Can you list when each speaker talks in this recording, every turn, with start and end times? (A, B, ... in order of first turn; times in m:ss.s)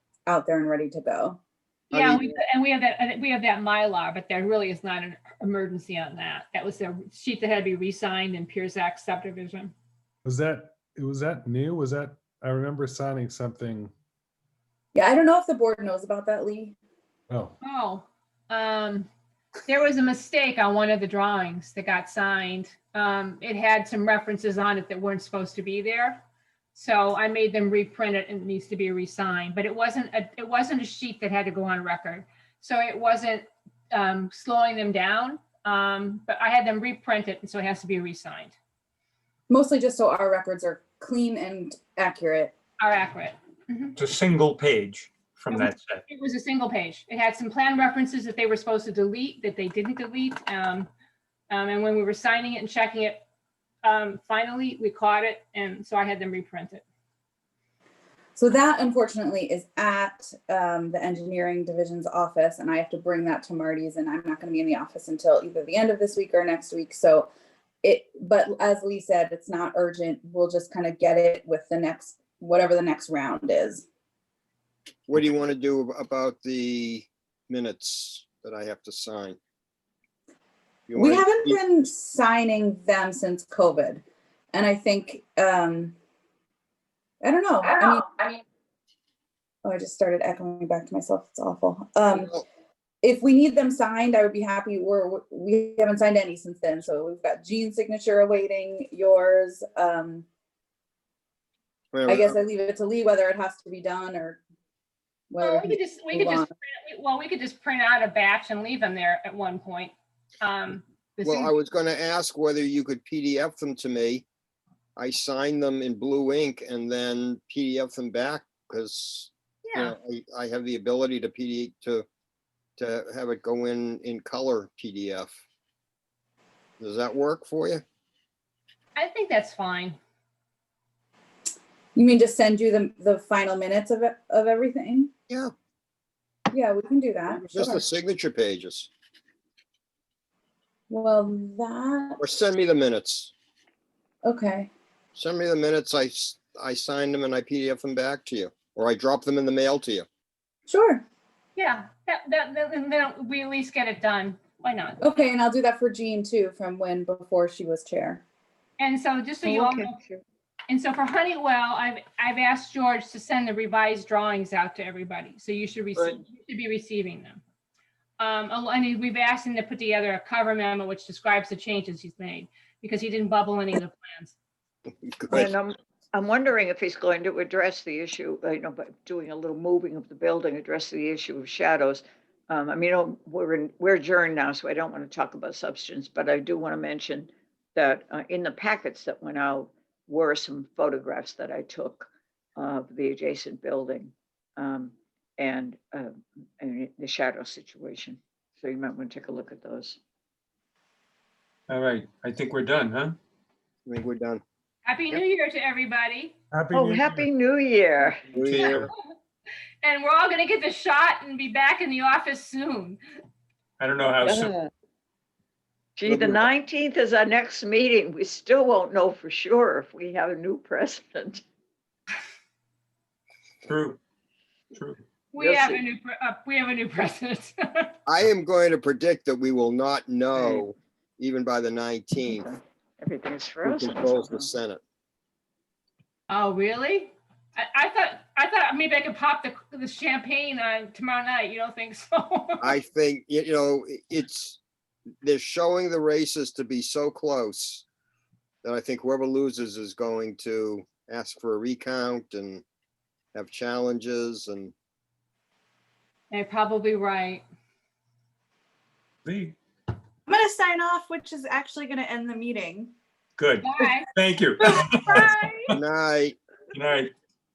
0:00.3-0:01.4 A
0:01.9-0:09.7 B
0:01.9-0:02.3 C
0:10.2-0:13.9 D
0:14.9-0:16.8 A
0:17.6-0:19.1 B
0:19.7-0:26.2 B
0:26.7-0:38.5 B
0:39.5-0:42.5 A
0:42.8-0:44.0 B
0:44.0-0:46.0 E
0:45.5-0:50.9 B
0:51.5-0:53.2 B
0:53.8-0:56.8 B
0:58.4-1:07.3 A
1:07.8-1:13.8 A
1:15.1-1:19.4 C
1:20.9-1:21.6 C
1:20.9-1:24.0 A
1:24.5-1:26.0 A
1:27.2-1:28.4 A
1:29.6-1:32.3 A
1:32.1-1:32.4 C
1:33.0-1:40.3 A
1:41.9-1:42.4 C
1:42.1-1:44.4 A
1:45.3-1:46.5 A
1:45.4-1:51.5 B
1:51.2-1:54.2 C
1:55.0-2:02.0 C
1:59.7-1:59.9 B
2:02.8-2:05.4 C
2:06.8-2:07.8 C
2:09.0-2:10.0 B
2:11.9-2:15.1 A
2:16.5-2:17.8 A
2:17.3-2:18.9 C
2:20.9-2:22.2 A
2:22.2-2:23.3 C
2:24.2-2:24.7 A
2:25.1-2:30.0 C
2:30.7-2:31.0 A
2:31.6-2:35.0 B
2:35.0-2:38.2 A
2:38.8-2:40.0 B
2:39.4-2:40.2 F
2:40.7-2:47.4 B
2:48.2-2:54.3 B
2:55.0-2:55.5 C
2:55.3-3:20.0 F
3:21.7-3:23.2 E
3:23.8-3:24.4 C
3:24.8-3:26.3 B
3:26.5-3:27.2 D
3:26.7-3:28.3 F
3:28.3-3:28.9 E
3:28.3-3:28.9 C
3:28.5-3:28.8 B
3:29.8-3:33.0 B
3:33.8-3:34.5 E
3:34.2-3:34.7 F
3:36.0-3:41.4 F
3:36.0-3:36.4 C
3:43.7-3:44.0 E
3:44.7-3:45.0 E
3:45.3-3:47.9 B
3:45.4-3:45.8 F
3:48.0-3:52.5 C
3:50.4-3:50.6 F
3:52.2-3:54.5 F
3:53.6-3:54.8 C
3:56.3-4:02.7 B
4:02.6-4:04.6 C
4:05.2-4:07.8 C
4:08.6-4:12.6 C
4:13.3-4:14.7 C
4:16.3-4:17.4 B
4:19.2-4:19.6 E
4:20.3-4:22.9 A
4:23.4-4:25.4 E
4:23.6-4:24.1 B
4:24.6-4:25.7 A
4:25.7-4:26.4 C
4:26.7-4:27.1 E